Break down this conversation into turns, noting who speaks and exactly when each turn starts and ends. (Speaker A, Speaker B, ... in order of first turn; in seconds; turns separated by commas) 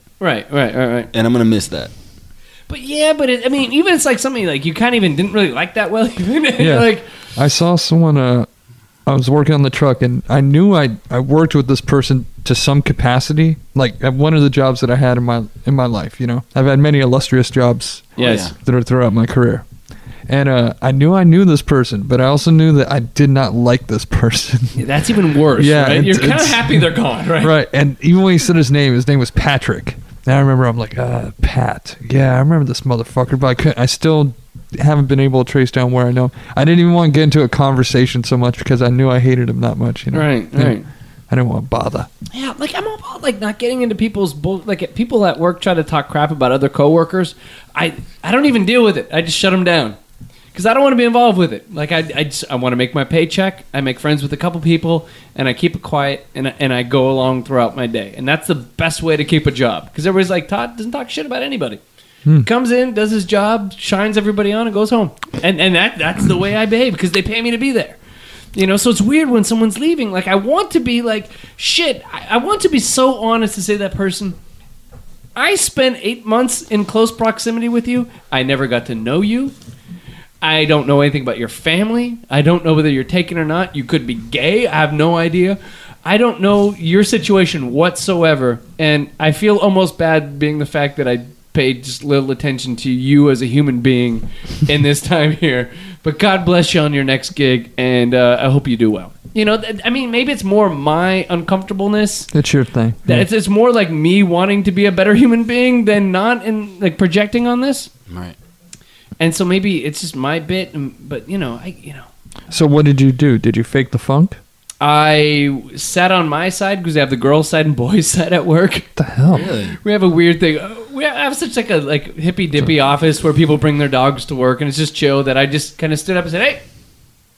Speaker A: 0.2-1.1, Speaker B: 1.1-1.9, Speaker A: 2.7-7.0, Speaker C: 6.6-8.5, Speaker C: 9.1-19.7, Speaker A: 18.2-18.5, Speaker B: 18.2-18.5, Speaker C: 20.3-24.8, Speaker A: 24.7-27.5, Speaker C: 25.6-40.8, Speaker A: 40.1-40.9, Speaker C: 41.3-42.1, Speaker A: 42.3-50.0, Speaker A: 50.5-61.8, Speaker A: 62.4-68.0, Speaker A: 68.5-74.4, Speaker A: 75.4-79.5, Speaker A: 80.4-102.3, Speaker C: 102.3-103.3, Speaker A: 103.0-107.9, Speaker B: 108.1-108.4, Speaker A: 109.2-112.1, Speaker C: 112.5-114.4, Speaker A: 114.8-118.9, Speaker C: 119.0-119.5, Speaker B: 119.3-119.8, Speaker A: 119.8-126.6